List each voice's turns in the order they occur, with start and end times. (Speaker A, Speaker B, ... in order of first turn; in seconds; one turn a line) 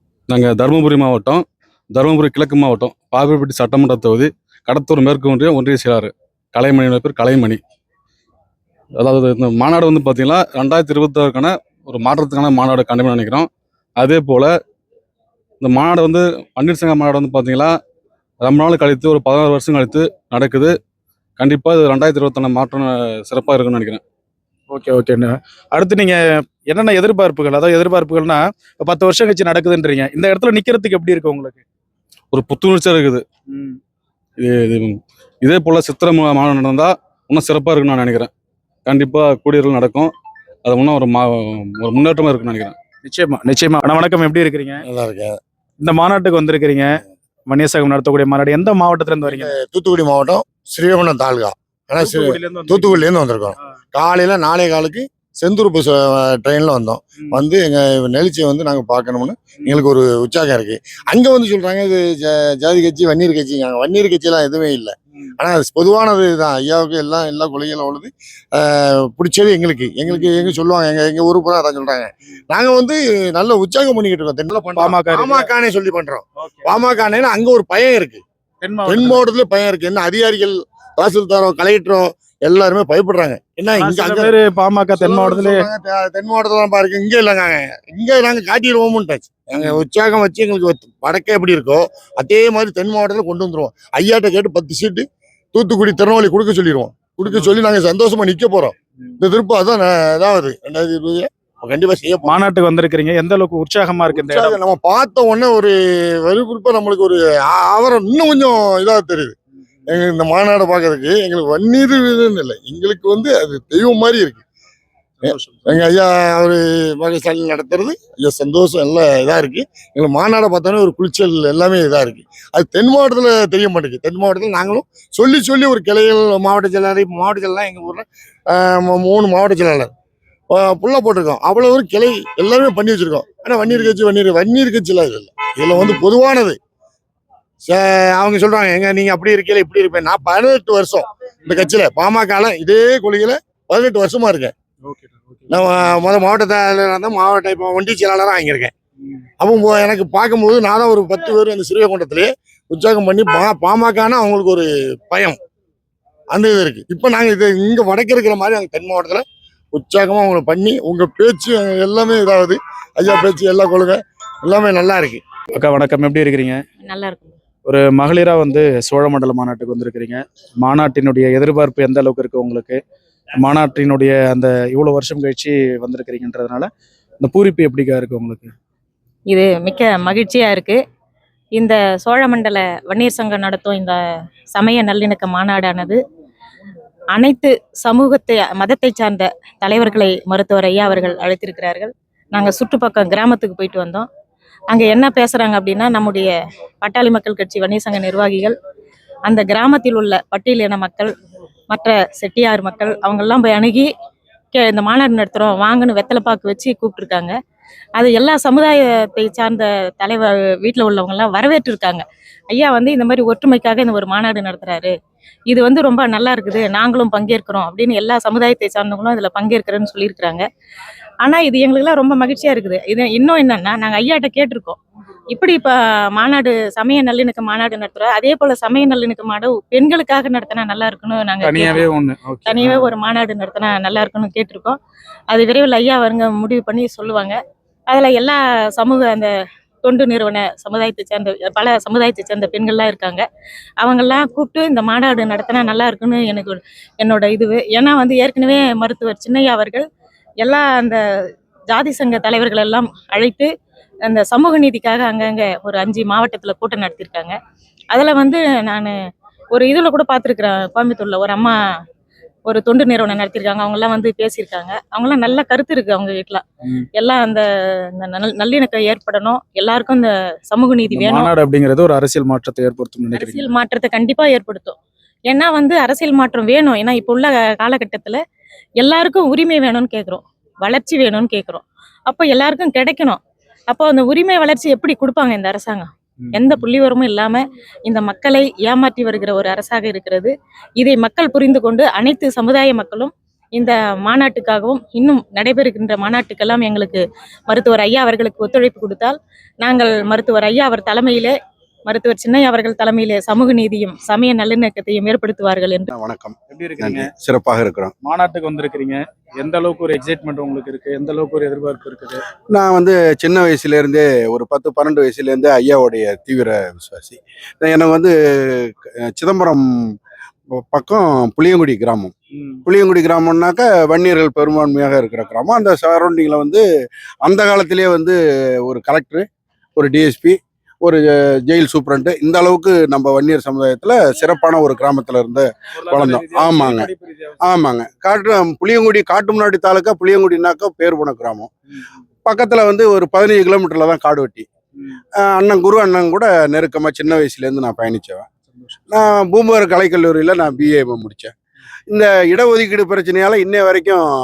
Speaker A: 0.3-1.4
Speaker A: 1.9-7.6
Speaker A: 9.0-13.5
Speaker A: 14.0-14.5
Speaker A: 15.6-17.7
Speaker A: 18.4-20.7
Speaker A: 21.4-24.0
Speaker B: 24.7-31.6
Speaker A: 32.3-33.2
Speaker B: 33.5-33.8
Speaker A: 34.4-38.3
Speaker A: 38.9-40.1
Speaker A: 40.6-42.7
Speaker B: 43.0-44.8
Speaker C: 44.8-45.4
Speaker B: 45.8-49.5
Speaker C: 49.2-78.2
Speaker B: 52.0-53.0
Speaker B: 59.6-59.8
Speaker B: 70.1-70.5
Speaker B: 74.8-75.5
Speaker B: 76.4-76.8
Speaker B: 78.6-79.2
Speaker C: 78.8-84.3
Speaker B: 83.8-85.7
Speaker C: 85.0-102.4
Speaker B: 102.2-104.6
Speaker C: 104.1-109.3
Speaker C: 109.9-114.4
Speaker B: 115.2-115.8
Speaker C: 115.2-129.9
Speaker C: 130.5-136.6
Speaker B: 135.8-136.0
Speaker C: 137.6-144.5
Speaker B: 144.8-145.9
Speaker C: 145.5-148.7
Speaker C: 149.4-155.4
Speaker C: 156.3-165.2
Speaker B: 165.6-166.6
Speaker D: 166.8-167.4
Speaker B: 167.6-172.8
Speaker B: 173.4-176.7
Speaker B: 177.2-178.5
Speaker D: 179.3-180.8
Speaker D: 181.6-184.0
Speaker D: 184.5-186.0
Speaker D: 187.1-194.1
Speaker D: 194.7-198.5
Speaker D: 199.3-201.1
Speaker D: 201.7-203.9
Speaker D: 204.5-207.3
Speaker D: 208.0-214.9
Speaker D: 215.5-220.4
Speaker D: 221.2-231.9
Speaker B: 231.4-232.9
Speaker D: 232.4-234.8
Speaker D: 235.3-237.4
Speaker D: 237.9-239.3
Speaker D: 239.8-243.2
Speaker D: 243.8-249.8
Speaker D: 250.4-251.0
Speaker D: 251.7-253.5
Speaker D: 254.1-257.3
Speaker D: 257.9-258.9
Speaker D: 259.5-261.6
Speaker D: 262.5-266.4
Speaker D: 267.0-271.3
Speaker B: 270.9-273.4
Speaker D: 273.1-274.8
Speaker D: 275.3-278.2
Speaker D: 278.8-283.2
Speaker D: 283.7-301.4
Speaker B: 286.2-286.6
Speaker D: 301.9-305.9
Speaker E: 305.9-307.9
Speaker B: 306.5-307.1
Speaker B: 308.0-312.2
Speaker E: 312.5-319.6
Speaker E: 320.6-322.1
Speaker E: 322.6-326.6
Speaker E: 327.2-329.2
Speaker E: 329.8-336.9
Speaker B: 335.8-337.5
Speaker E: 337.4-341.5
Speaker E: 342.2-344.5
Speaker E: 345.2-348.3
Speaker B: 348.5-349.0
Speaker E: 348.9-351.3
Speaker E: 351.9-354.0